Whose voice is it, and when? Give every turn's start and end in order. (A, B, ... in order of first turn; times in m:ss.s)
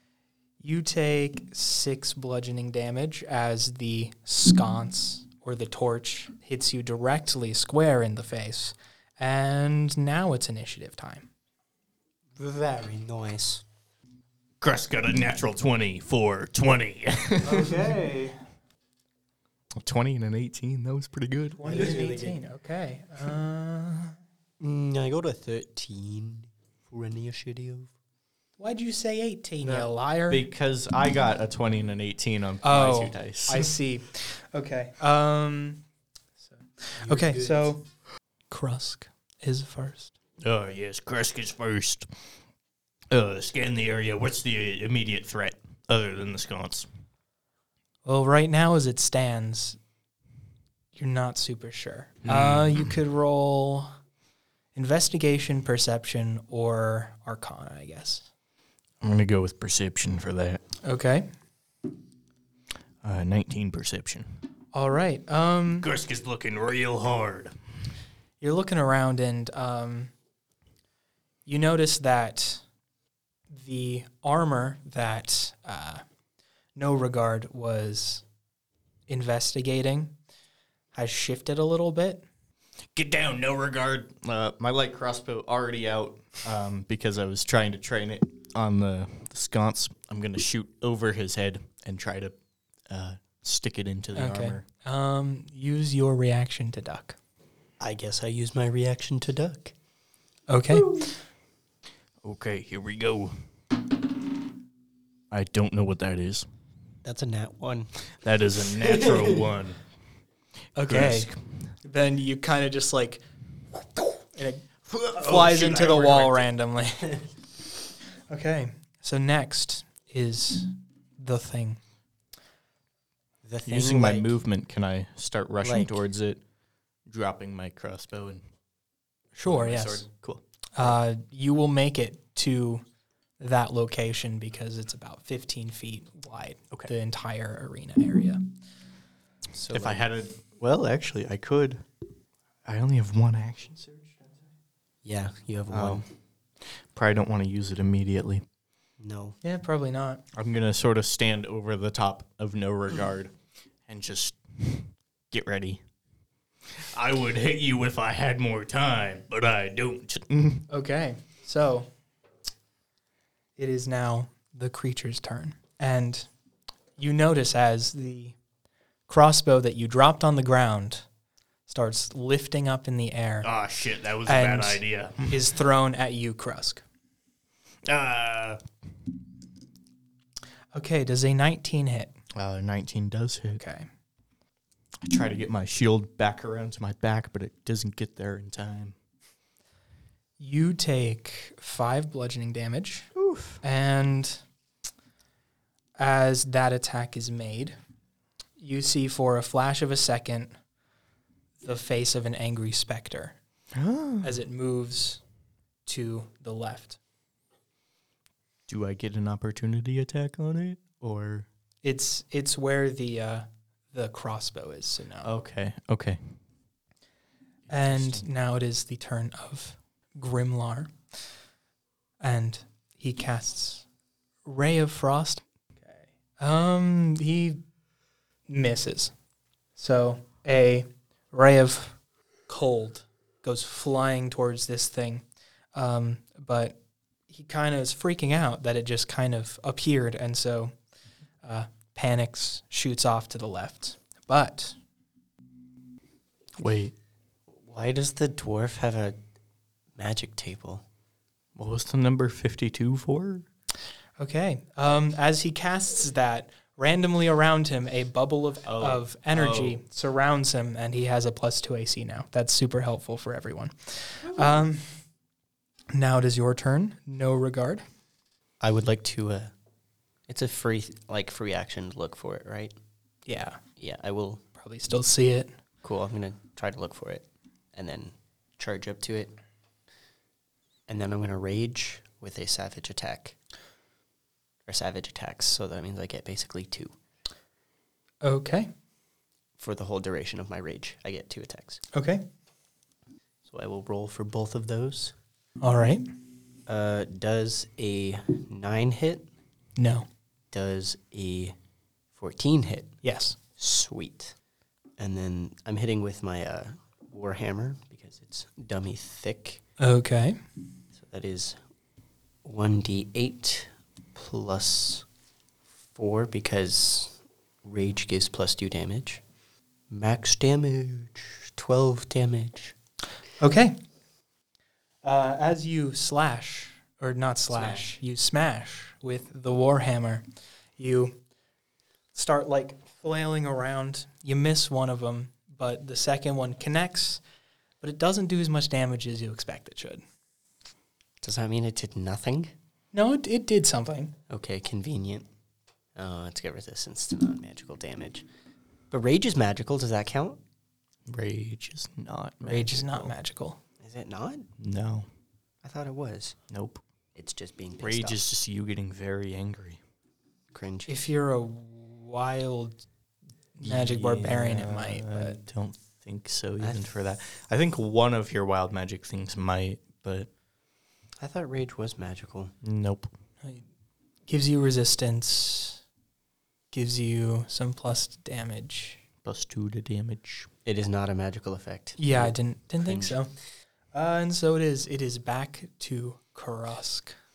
0:00.6-0:11.3 A
0:12.4-0:13.6 B
0:14.6-0:17.8 C
0:17.4-0:18.4 A
0:19.8-0:21.9 C
0:21.6-0:24.2 A
0:21.6-0:22.4 B
0:24.6-0:27.9 B
0:28.6-0:30.5 A
0:29.6-0:33.7 C
0:32.6-0:35.8 A
0:36.4-0:37.8 A
0:37.0-0:37.7 B
0:38.5-0:40.1 A
0:40.4-0:42.1 C
0:43.1-0:46.9 C
0:48.0-0:49.8 A
0:51.0-0:53.9 A
0:52.2-0:53.0 C
0:54.8-0:58.3 A
0:59.0-1:00.6 C
1:00.8-1:01.3 A
1:03.0-1:04.3 C
1:04.7-1:05.9 A
1:05.8-1:07.5 C
1:08.4-1:10.1 A
1:11.5-1:12.6 A
1:13.5-1:16.0 A
1:16.8-1:18.2 A
1:19.1-1:20.1 A
1:20.9-1:22.2 A
1:23.0-1:32.3 C
1:32.9-1:34.6 C
1:34.2-1:37.2 A
1:37.8-1:39.7 B
1:40.5-1:41.1 A
1:42.2-1:43.4 C
1:45.3-1:46.5 C
1:47.0-1:47.9 B
1:48.2-1:49.8 C
1:48.7-1:49.5 B
1:50.8-1:51.3 A
1:50.9-1:51.4 C
1:51.8-1:57.2 A
1:54.9-1:56.5 C
1:58.3-2:01.8 A
2:03.4-2:04.3 B
2:03.7-2:06.4 C
2:05.6-2:06.0 B
2:07.1-2:08.4 C
2:09.4-2:10.1 A
2:09.4-2:10.9 C
2:10.8-2:12.8 A
2:13.4-2:18.4 A
2:19.5-2:20.0 B
2:19.7-2:21.8 C
2:22.6-2:24.3 C
2:25.0-2:26.1 B
2:25.7-2:26.0 C
2:26.9-2:28.4 C
2:29.0-2:29.4 B
2:29.4-2:30.2 A
2:30.3-2:33.3 C
2:33.9-2:35.8 C
2:36.8-2:40.6 C
2:40.7-2:41.9 A
2:43.6-2:46.3 A
2:47.0-2:48.4 A
2:49.1-2:51.0 A
2:51.7-2:53.5 A
2:53.4-2:55.4 C
2:54.3-2:56.8 A
2:57.8-2:58.6 C
3:00.7-3:02.1 A
3:02.4-3:03.6 C
3:03.5-3:03.9 A
3:05.0-3:09.0 C
3:10.4-3:13.1 A
3:13.2-3:13.6 C
3:13.6-3:14.4 A
3:16.0-3:17.8 A
3:18.6-3:20.5 A
3:21.6-3:23.4 A
3:23.8-3:24.4 C
3:24.2-3:25.2 A
3:25.9-3:27.0 A
3:28.7-3:31.5 C
3:31.8-3:35.3 A
3:35.2-3:36.2 C
3:37.7-3:38.2 C
3:37.7-3:40.9 A
3:42.2-3:43.8 A
3:44.5-3:47.6 A
3:48.5-3:49.1 A
3:49.8-3:52.0 A
3:52.5-3:55.2 A
3:55.8-3:56.8 A
3:57.3-4:00.7 A
4:01.4-4:04.8 A
4:06.6-4:06.9 C
4:07.5-4:09.2 B
4:10.0-4:10.8 B
4:11.6-4:13.5 C
4:14.2-4:24.9 A
4:18.7-4:19.8 C
4:25.9-4:27.8 A
4:28.6-4:29.5 B
4:30.3-4:32.8 B
4:33.3-4:33.6 A
4:33.8-4:34.4 B
4:34.6-4:35.5 A
4:35.8-4:39.3 B
4:40.9-4:43.4 B
4:44.7-4:46.9 B
4:48.2-4:48.7 A
4:49.6-4:51.8 B
4:51.9-4:52.2 A
4:53.5-4:55.2 B
4:55.6-4:56.0 A
4:56.7-4:59.3 B
4:59.8-5:00.1 A
5:00.5-5:01.6 B
5:02.2-5:03.0 B
5:03.0-5:03.4 A
5:03.6-5:04.4 B
5:05.0-5:09.6 B
5:09.8-5:10.4 A
5:11.0-5:11.6 B
5:12.4-5:15.0 B
5:16.0-5:19.2 B
5:19.9-5:22.8 B
5:23.4-5:23.8 A
5:25.0-5:30.2 A
5:27.5-5:27.9 B
5:30.8-5:31.2 A
5:32.1-5:37.2 A
5:37.8-5:40.0 A
5:41.2-5:42.5 B
5:42.9-5:44.1 A
5:44.3-5:45.3 B
5:46.0-5:48.2 B
5:48.9-5:50.4 B
5:51.1-5:53.1 C
5:52.4-5:53.6 A
5:53.8-5:54.5 B
5:54.6-5:55.1 C
5:55.6-5:56.4 B
5:56.5-5:56.8 C
5:57.2-5:58.3 B
5:57.8-5:59.8 C
6:00.5-6:01.0 B
6:00.9-6:02.8 A
6:03.6-6:05.4 A
6:03.6-6:10.3 C
6:06.6-6:06.9 B
6:11.2-6:12.5 B
6:12.6-6:13.1 C
6:14.3-6:15.8 A
6:16.7-6:19.0 A
6:19.2-6:20.5 C
6:20.6-6:23.2 B
6:22.0-6:23.3 A
6:23.9-6:27.2 A